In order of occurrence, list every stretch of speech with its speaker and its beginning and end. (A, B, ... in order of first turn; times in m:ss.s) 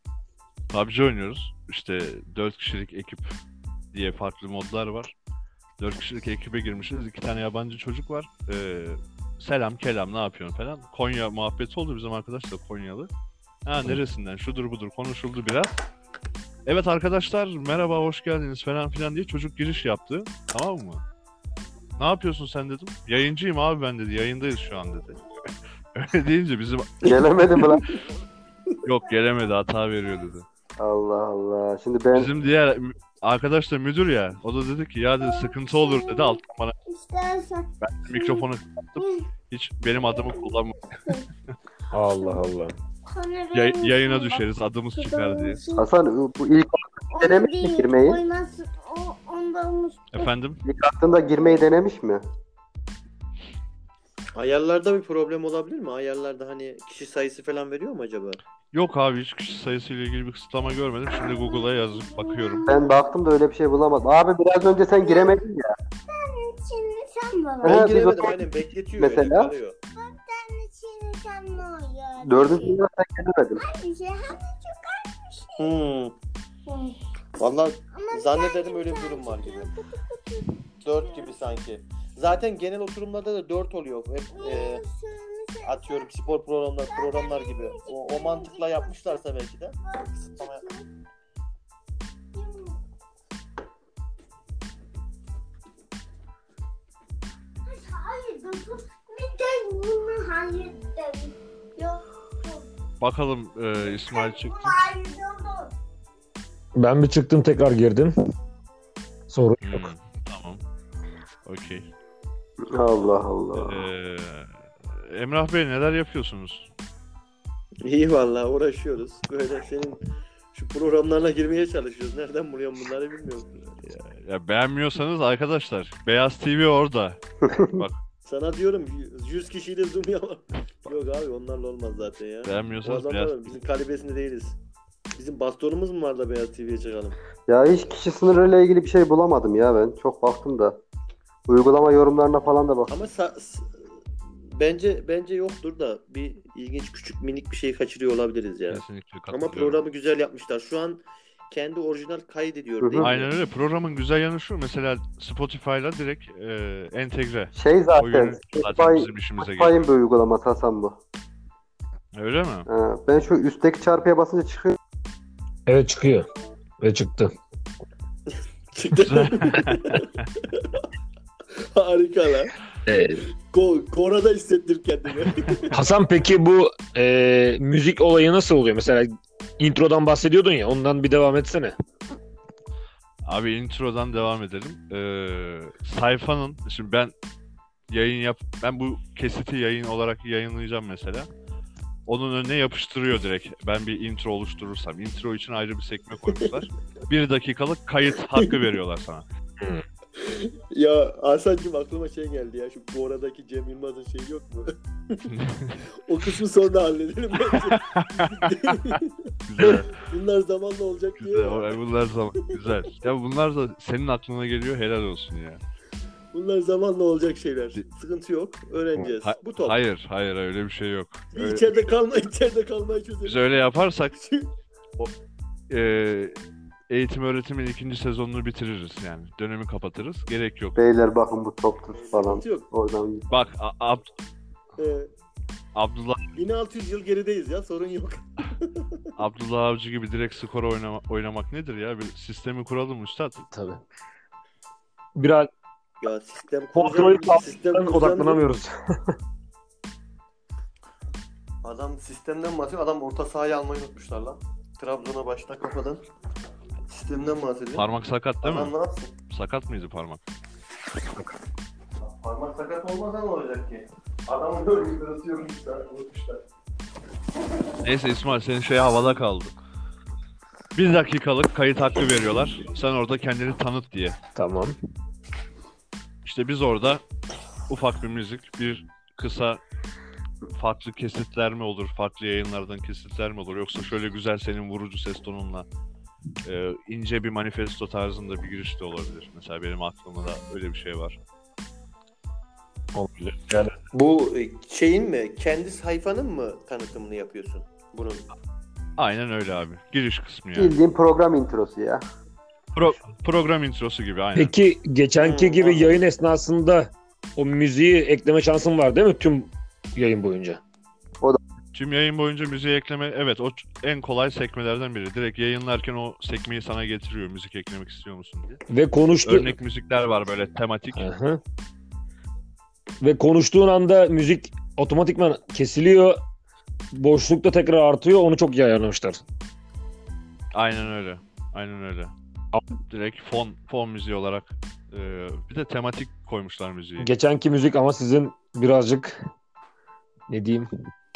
0:00.7-0:03.4 A
0:03.9-0:05.1 A
0:05.8-0:13.1 A
0:13.6-0:15.8 A
0:16.6-0:21.0 A
0:22.0-0:25.2 A
0:25.9-0:27.7 A
0:27.0-0:27.8 B
0:28.8-0:30.4 A
0:30.8-0:32.3 B
0:32.1-0:36.7 A
0:35.2-0:39.2 C
0:37.8-0:40.8 A
0:39.9-0:41.3 C
0:41.9-0:42.7 D
0:42.0-0:42.4 C
0:43.1-0:45.9 C
0:43.5-0:45.6 A
0:45.8-0:48.2 B
0:47.1-0:50.3 C
0:50.1-0:50.6 A
0:50.6-0:52.2 B
0:54.3-0:58.4 E
0:58.7-1:02.7 A
1:01.1-1:03.0 C
1:02.7-1:05.7 B
1:04.9-1:05.4 C
1:06.1-1:07.9 C
1:07.6-1:08.4 B
1:07.6-1:09.8 E
1:09.0-1:09.5 B
1:10.0-1:12.8 C
1:12.2-1:13.6 B
1:13.5-1:15.6 C
1:15.6-1:16.1 E
1:16.6-1:17.0 C
1:17.4-1:19.7 E
1:17.9-1:21.4 C
1:20.8-1:24.8 E
1:24.3-1:26.1 C
1:25.6-1:30.6 E
1:26.8-1:29.2 C
1:29.8-1:30.9 C
1:32.3-1:32.8 C
1:37.6-1:42.7 C
1:43.0-1:44.7 A
1:44.0-1:45.7 C
1:46.8-1:48.1 D
1:49.3-1:49.9 D
1:49.6-1:50.6 A
1:51.4-1:51.9 A
1:52.7-1:53.9 B
1:53.6-1:56.7 A
1:57.8-2:00.0 E
2:00.5-2:03.7 E
2:03.8-2:08.0 A
2:07.4-2:07.8 B
2:08.2-2:14.6 E
2:12.4-2:13.5 A
2:15.1-2:17.1 E
2:17.5-2:20.8 B
2:21.5-2:22.9 B
2:22.9-2:23.8 E
2:24.4-2:33.3 E
2:28.7-2:29.8 A
2:32.8-2:33.1 B
2:33.0-2:39.8 A
2:37.5-2:41.0 B
2:42.1-2:42.7 A
2:42.7-2:44.8 B
2:45.7-2:46.2 D
2:46.8-2:47.3 D
2:48.3-2:50.8 E
2:49.0-2:50.0 A
2:51.5-2:52.5 E
2:52.8-2:53.2 D
2:53.5-2:55.8 E
2:55.7-3:01.7 D
3:03.2-3:07.1 A
3:07.9-3:11.3 A
3:12.1-3:19.2 A
3:20.2-3:25.3 E
3:25.3-3:25.8 A
3:26.1-3:31.8 E
3:27.8-3:28.7 A
3:29.5-3:30.0 A
3:31.2-3:35.6 A
3:36.3-3:39.8 E
3:39.0-3:41.7 A
3:41.3-3:44.5 E
3:43.2-3:44.2 A
3:45.7-3:46.4 A
3:46.9-3:50.8 A
3:50.8-3:53.3 B
3:51.9-3:52.7 E
3:53.3-3:54.1 A
3:54.8-3:55.1 E
3:55.7-3:56.3 A
3:56.3-3:59.0 E
3:59.2-4:03.4 A
4:03.5-4:03.8 D
4:05.2-4:05.5 D
4:06.0-4:08.4 E
4:06.7-4:09.2 D
4:11.6-4:16.0 E
4:16.9-4:17.9 E
4:17.7-4:18.7 A
4:18.4-4:19.1 E
4:19.3-4:20.2 A
4:22.0-4:26.4 E
4:27.8-4:29.5 A
4:30.7-4:34.2 A
4:34.3-4:34.8 D
4:36.2-4:37.0 A
4:37.7-4:39.6 A
4:40.5-4:45.6 A
4:46.4-4:51.2 A
4:52.9-4:53.7 D
4:53.9-4:58.3 E
4:59.0-5:00.7 A
5:00.5-5:02.0 B
5:02.7-5:04.5 A
5:04.4-5:10.6 D
5:05.2-5:06.0 E
5:11.7-5:18.6 A
5:18.7-5:19.6 D
5:19.2-5:21.1 A
5:20.9-5:21.4 D
5:23.0-5:26.2 D
5:26.9-5:29.2 D
5:30.5-5:32.1 A
5:32.9-5:37.1 A
5:37.0-5:39.2 D
5:40.3-5:40.7 D